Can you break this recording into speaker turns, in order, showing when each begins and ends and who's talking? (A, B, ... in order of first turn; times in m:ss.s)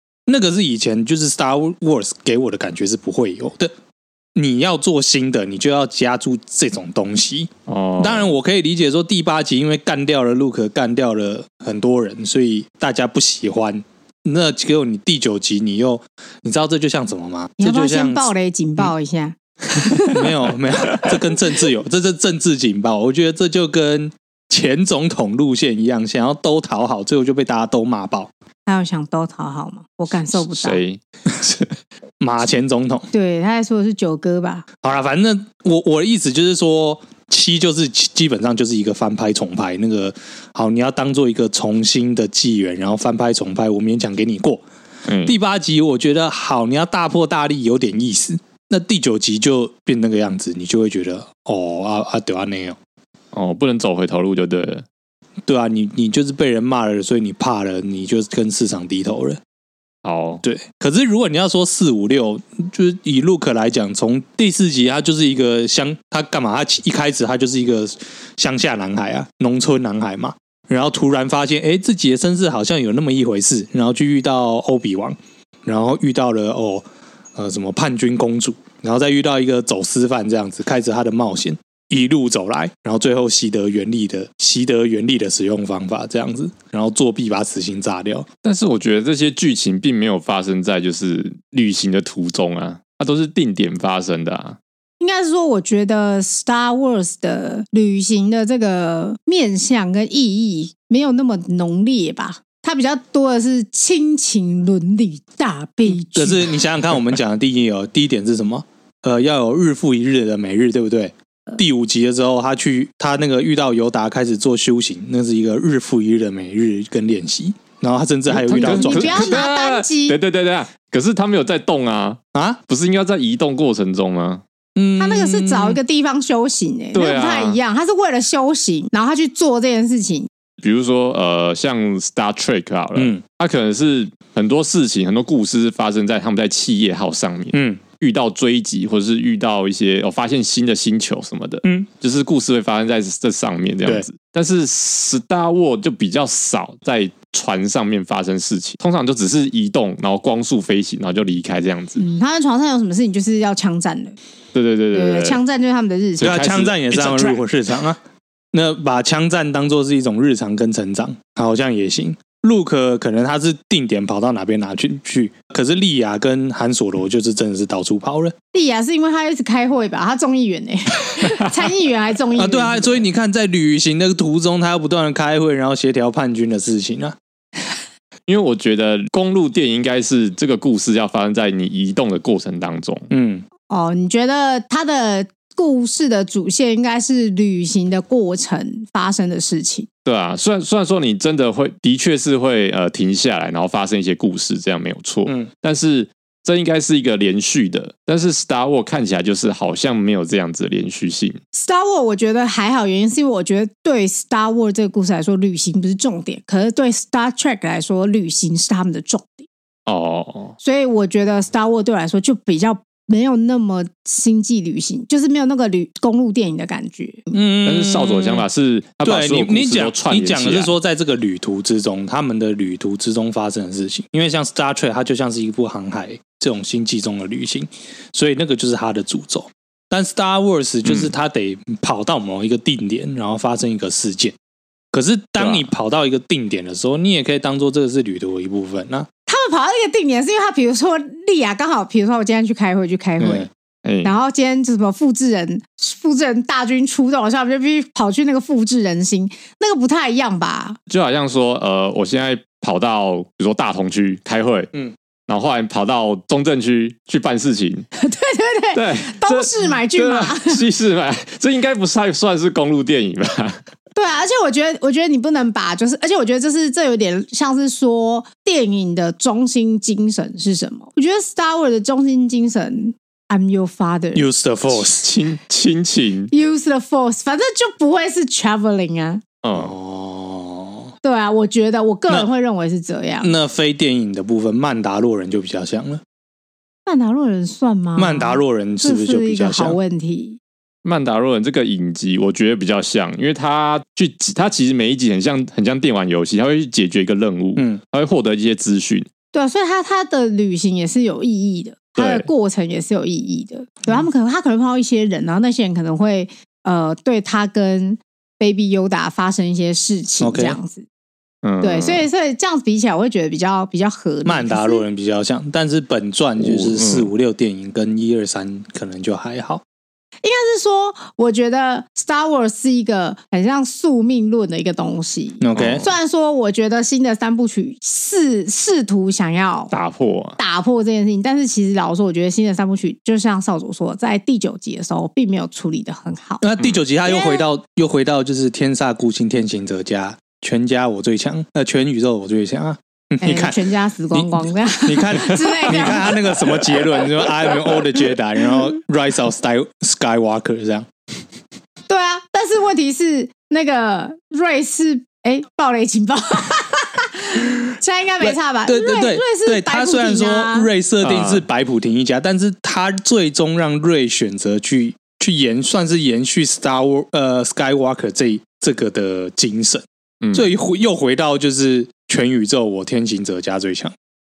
0:00.3-0:03.7 A
0:04.3-0:18.9 A
0:07.7-0:08.3 B
0:17.6-0:20.3 C
0:20.0-0:28.3 A
0:28.6-0:30.8 C
0:30.3-0:31.6 B
0:32.2-0:33.1 A
0:33.1-0:34.6 C
0:34.8-0:44.6 A
0:45.0-0:45.4 B
0:45.2-0:52.8 A
0:53.3-0:54.8 B
0:55.5-0:59.4 A
1:00.0-1:00.4 B
1:00.4-1:28.3 A
1:28.4-1:34.6 B
1:35.0-1:46.5 C
1:45.9-1:59.4 A
1:58.4-2:04.4 B
1:58.4-2:00.2 C
2:02.3-2:02.6 A
2:04.8-2:05.8 A
2:05.0-2:10.3 C
2:06.9-2:07.6 B
2:10.6-2:32.0 B
2:13.0-2:13.2 A
2:17.5-2:17.8 A
2:32.0-2:34.1 C
2:34.5-2:35.4 B
2:34.9-2:36.5 C
2:36.2-2:37.4 B
2:36.2-2:38.0 A
2:38.5-2:48.3 A
2:48.5-2:53.0 C
2:52.4-2:57.2 A
2:58.3-3:03.1 B
3:03.1-3:03.4 A
3:03.7-3:09.9 C
3:10.0-3:21.4 B
3:21.5-3:29.5 C
3:29.8-3:30.5 B
3:30.6-3:37.3 C
3:37.3-3:38.4 A
3:37.6-3:40.7 B
3:39.0-3:54.3 A
3:50.8-3:51.1 B
3:54.9-3:59.1 A
3:55.4-3:55.7 B
3:59.3-4:03.5 C
4:03.2-4:03.5 A
4:03.8-4:04.1 B
4:04.0-4:10.8 C
4:10.9-4:14.7 B
4:15.3-4:17.9 B
4:18.0-4:20.6 C
4:18.7-4:23.6 B
4:24.0-4:34.2 C
4:34.1-4:35.0 A
4:34.7-4:36.3 B
4:36.3-4:39.2 C
4:39.4-4:39.7 B
4:39.5-4:40.9 A
4:41.0-4:43.3 C
4:43.2-4:46.0 A
4:46.8-4:50.4 C
4:48.0-4:49.8 A
4:50.8-4:59.1 B
4:57.6-4:57.8 A
4:59.3-5:10.8 C
5:02.0-5:02.3 B
5:10.2-5:10.6 A
5:11.4-5:12.1 B
5:11.6-5:14.8 C
5:14.2-5:19.6 A
5:16.4-5:17.1 B
5:20.2-5:29.7 C
5:25.4-5:25.8 A
5:25.6-5:25.9 B
5:29.7-5:30.4 B
5:30.4-5:36.4 C
5:36.4-5:43.6 A
5:37.0-5:37.4 C
5:43.2-5:46.6 C
5:44.1-5:50.9 A
5:51.9-6:00.7 C
5:58.2-6:13.9 A
6:01.0-6:01.4 B
6:10.2-6:10.5 B